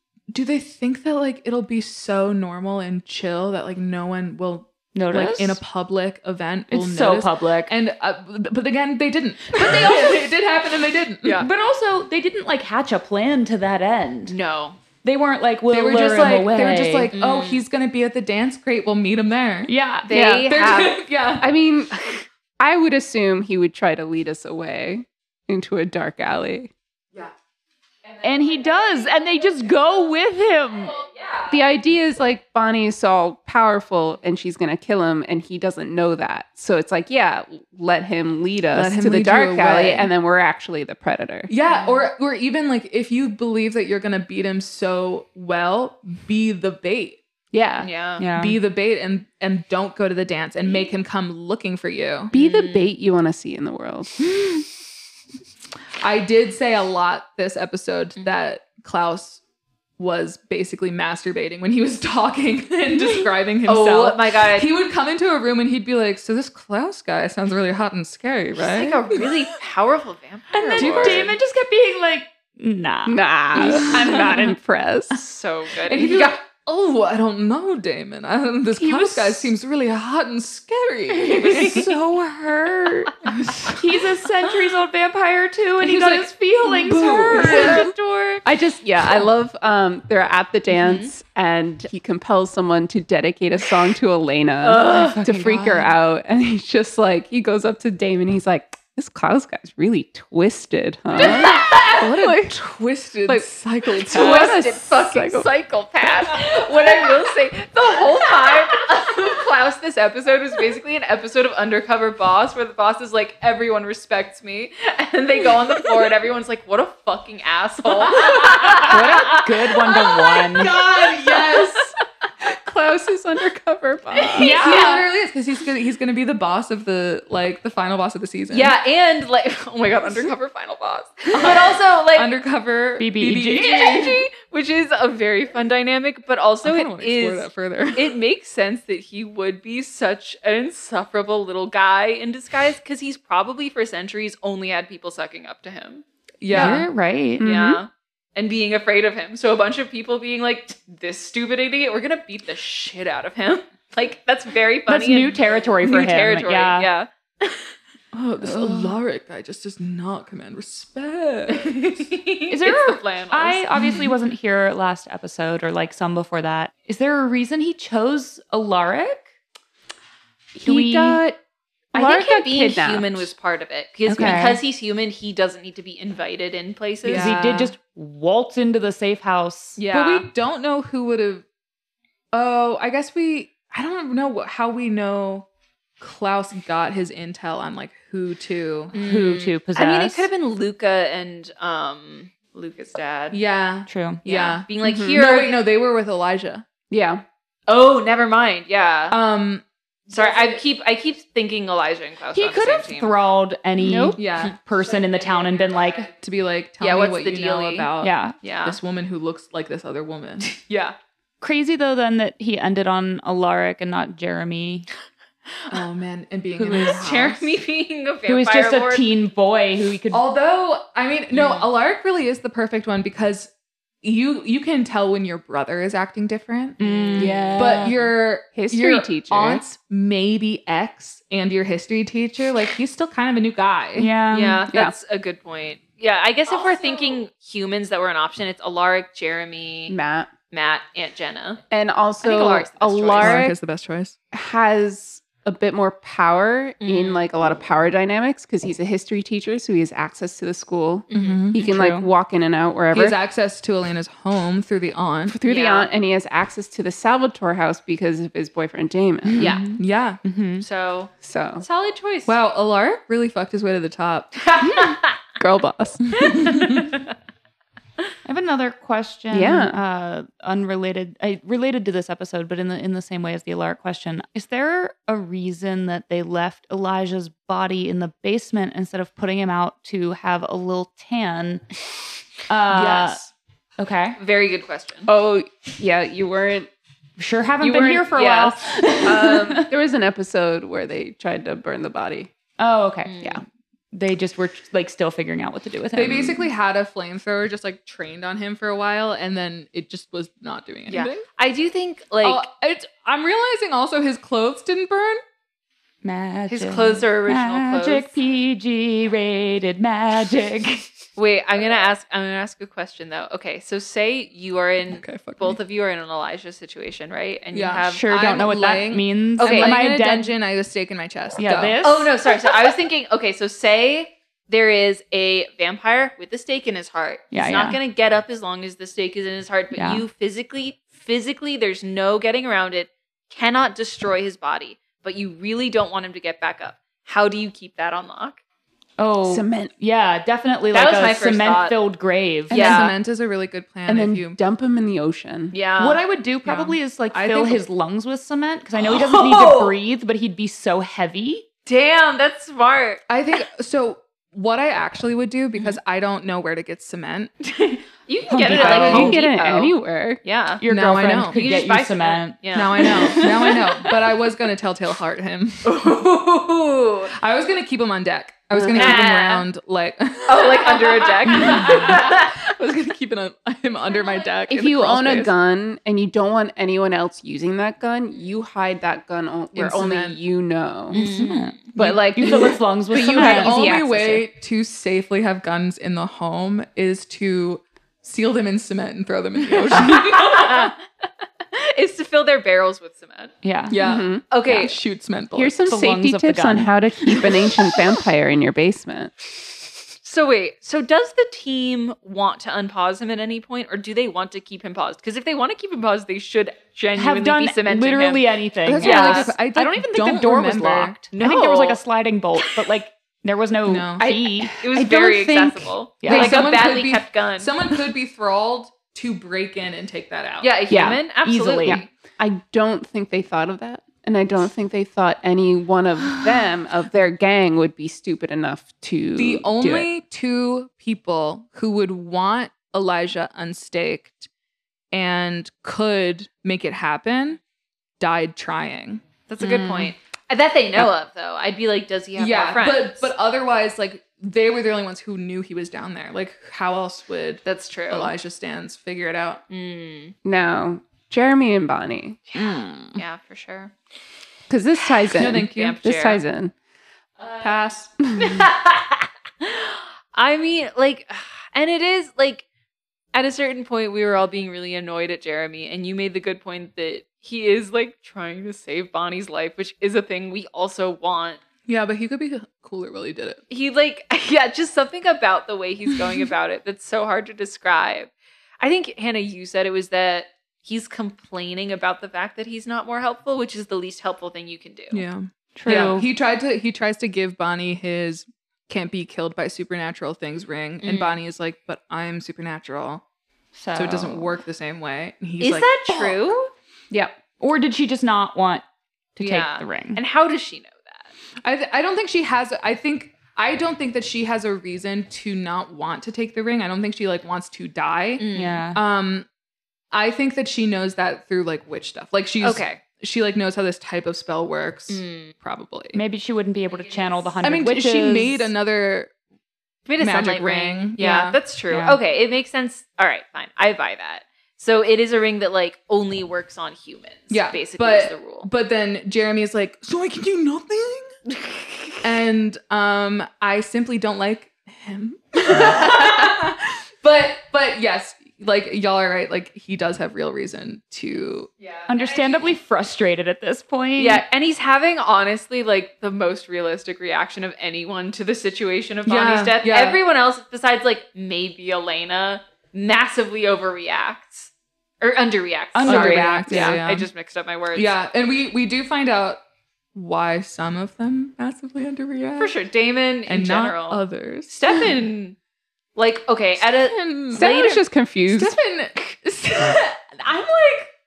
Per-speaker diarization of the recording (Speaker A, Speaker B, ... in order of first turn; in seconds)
Speaker A: 0.3-11.5, 15.7-19.7, 20.5-21.5, 38.7-40.1, 41.5-47.2, 48.3-52.3, 54.4-54.6, 56.0-59.4, 60.0-69.3, 70.7-71.4, 73.6-74.3, 75.8-83.8, 85.8-87.9, 95.2-95.9, 101.2-104.6, 118.1-118.8, 120.5-122.0, 124.3-128.8, 131.3-134.2, 136.6-138.2, 146.4-146.9, 158.1-162.1, 163.8-164.1, 177.0-177.7, 179.9-181.4, 182.3-185.5, 186.0-188.9, 193.3-196.7, 199.1-200.6, 204.2-204.6, 206.2-208.1, 208.6-210.9, 215.7-217.5, 220.1-223.5, 224.0-234.1, 243.2-244.2, 251.1-251.7, 252.9-255.4, 259.4-260.2, 262.3-264.4, 266.2-266.9, 282.7-283.3, 295.9-301.2, 302.2-305.2, 314.9-315.6, 317.5-321.8, 342.5-344.4, 346.4-347.6, 353.1-357.3, 358.7-359.1, 360.7-361.5, 362.5-365.9, 367.1-375.3, 379.6-380.2, 381.8-390.7, 393.7-395.6, 408.6-411.0, 413.7-414.1, 416.1-420.5, 429.2-434.3, 434.9-437.4, 438.0-439.9, 442.2-449.4, 452.4-453.0, 455.1-455.8, 457.4-457.9, 471.7-473.4, 484.9-493.0, 493.7-495.7, 501.4-509.3, 509.9-516.0, 517.4-519.1, 520.0-521.4, 527.3-531.1, 532.0-541.5, 549.1-550.0, 555.8-557.1, 557.7-559.4, 560.0-562.5, 563.3-564.5, 566.6-567.5, 568.3-570.9
Speaker B: 5.0-5.6, 6.7-7.7, 9.6-10.1, 11.4-14.4, 15.0-17.1, 19.7-20.1, 28.2-30.9, 48.2-48.6, 70.5-74.6, 78.7-79.5, 83.7-87.9, 95.3-95.7, 118.8-120.8, 124.3-125.0, 133.0-134.0, 146.5-147.5, 154.9-156.9, 158.4-158.9, 162.5-169.3, 170.6-171.2, 174.1-174.6, 177.1-179.8, 189.0-190.3, 193.9-194.2, 202.3-206.1, 208.0-208.4, 211.4-214.9, 216.6-217.0, 218.3-220.2, 226.8-228.0, 234.0-234.7, 251.6-252.1, 259.3-260.6, 268.2-281.6, 282.5-283.2, 283.8-284.2, 287.2-289.7, 292.6-293.2, 293.9-296.5, 306.0-310.9, 317.9-320.3, 321.4-322.1, 327.3-327.8, 329.7-330.0, 339.0-342.9, 345.8-351.5, 358.3-359.2, 360.6-362.4, 380.9-384.2, 393.4-393.8, 395.7-396.8, 406.9-414.5, 416.0-416.4, 421.2-421.9, 485.6-486.1, 493.6-494.3, 497.4-498.6, 499.2-500.0, 508.3-508.8, 515.9-518.5, 521.7-522.0, 541.9-544.2, 555.7-556.8
Speaker C: 11.2-11.5, 14.3-14.8, 17.1-17.6, 20.1-21.1, 28.1-29.9, 30.6-31.6, 41.7-42.1, 47.8-48.2, 52.3-52.9, 63.7-64.7, 68.5-71.3, 75.1-76.4, 81.2-81.8, 87.3-88.4, 90.7-91.1, 94.6-95.2, 101.2-102.1, 104.1-121.9, 124.1-125.1, 128.5-132.3, 133.6-146.7, 147.4-157.7, 161.5-163.7, 171.9-177.4, 179.8-180.3, 188.9-193.4, 194.2-195.6, 197.7-199.2, 200.1-203.2, 204.4-206.1, 206.8-208.8, 210.6-210.9, 216.7-219.1, 221.3-221.7, 226.8-227.4, 234.3-240.0, 240.5-241.6, 242.2-243.5, 246.8-247.3, 251.1-251.5, 255.5-255.9, 259.4-259.6, 260.6-262.4, 264.4-265.2, 266.2-267.0, 284.2-285.1, 287.8-288.6, 293.1-293.4, 300.9-302.5, 306.5-308.1, 311.2-318.1, 319.4-319.8, 321.8-338.4, 340.7-341.8, 342.5-342.9, 345.5-346.0, 348.9-349.8, 351.7-353.0, 357.4-360.6, 361.2-364.0, 365.6-367.1, 368.7-369.5, 370.3-372.5, 380.9-381.6, 389.7-390.8, 391.5-393.4, 394.3-394.8, 400.0-408.3, 408.8-409.4, 411.1-411.8, 414.6-417.6, 420.4-421.9, 439.3-443.1, 447.4-448.1, 449.5-450.1, 452.3-453.7, 454.9-456.2, 457.2-457.6, 458.1-462.4, 463.1-471.4, 473.5-485.1, 490.8-491.2, 495.4-496.5, 499.2-501.1, 508.2-508.6, 512.4-512.8, 514.9-515.4, 516.7-517.3, 519.9-528.5, 541.6-542.5, 544.0-554.5, 555.0-558.0, 562.4-565.4, 566.0-567.8
Speaker D: 20.1-20.6, 21.4-21.9, 22.6-26.7, 31.5-41.5, 47.5-47.9, 52.3-54.1, 73.1-74.9, 88.5-101.9, 104.1-105.5, 122.4-124.5, 147.4-147.8, 170.6-171.4, 171.9-173.3, 174.1-174.5, 194.8-195.2, 196.9-197.2, 203.8-204.2, 227.2-229.6, 234.7-234.9, 239.9-240.3, 241.7-243.5, 244.3-253.2, 255.3-259.6, 261.2-261.6, 264.6-266.2, 269.3-269.8, 285.1-286.7, 287.6-288.1, 288.9-292.3, 339.2-339.7, 343.9-345.6, 358.5-360.2, 368.5-369.0, 374.5-381.1, 381.8-383.9, 393.8-394.2, 395.4-399.1, 414.0-416.5, 420.7-421.0, 421.6-429.9, 450.2-452.2, 454.5-456.5, 458.0-458.5, 496.9-497.2, 567.3-568.6